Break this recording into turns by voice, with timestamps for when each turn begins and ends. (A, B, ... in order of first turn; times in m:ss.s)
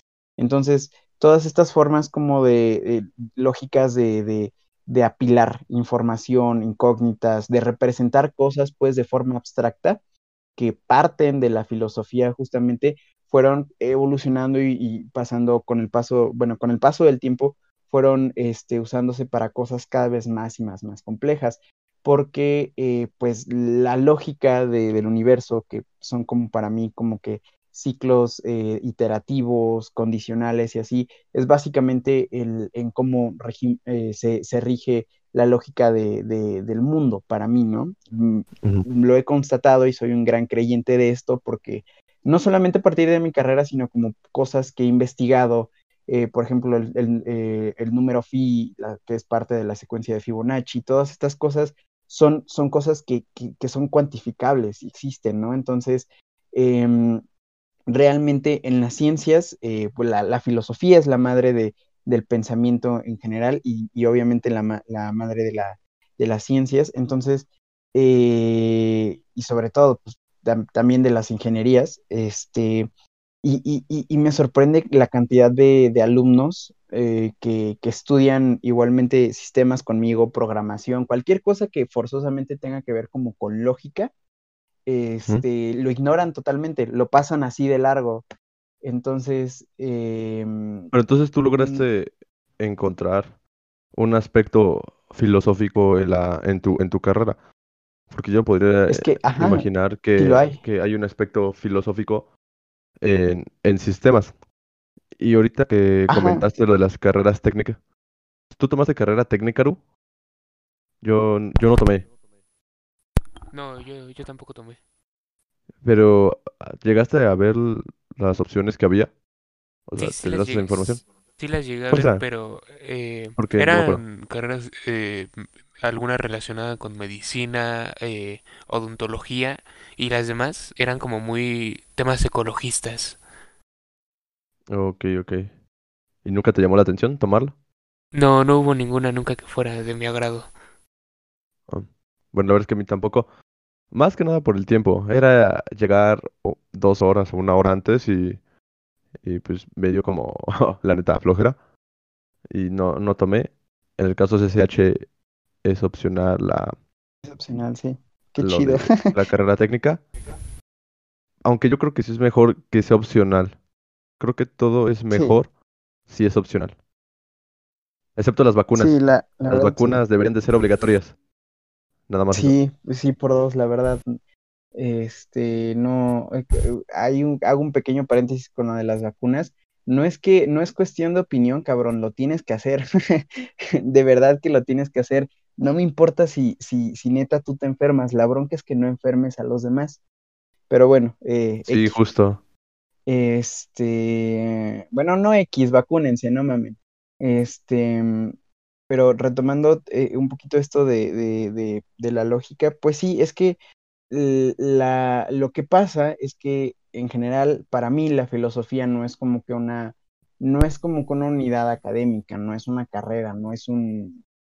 0:00.4-0:10.0 A
0:10.6-0:57.2 A
0:57.9-1:12.9 A
1:13.4-1:24.1 A
1:24.8-1:28.2 A
1:28.8-1:30.9 A
1:30.9-1:33.3 B
1:31.6-1:31.8 A
1:33.9-1:37.4 B
1:38.1-1:42.3 B
1:38.9-1:40.6 A
1:43.0-1:44.3 B
1:45.2-1:47.8 B
1:46.1-1:46.4 A
1:48.5-1:49.8 B
1:51.0-1:52.1 B
1:53.5-1:54.8 C
1:55.8-1:59.1 B
1:59.9-2:01.0 B
2:00.0-2:13.2 C
2:01.9-2:02.2 B
2:03.4-2:04.0 B
2:14.7-2:15.5 B
2:16.2-2:17.5 B
2:18.1-2:20.5 C
2:21.7-2:23.3 B
2:23.9-2:28.4 B
2:29.2-2:31.6 B
2:32.5-2:35.0 B
2:35.6-2:36.8 B
2:37.2-2:39.2 A
2:38.4-2:40.0 B
2:41.4-2:43.6 B
2:44.2-2:45.5 B
2:45.1-2:45.4 A
2:46.1-2:46.8 B
2:48.2-2:49.0 B
2:48.7-2:50.0 A
2:49.5-2:51.1 B
2:52.1-2:52.6 B
2:52.3-2:54.2 A
2:54.7-3:10.0 A
3:10.7-3:12.0 A
3:11.6-3:12.4 B
3:13.0-3:18.3 A
3:18.9-3:23.6 A
3:24.1-3:34.2 A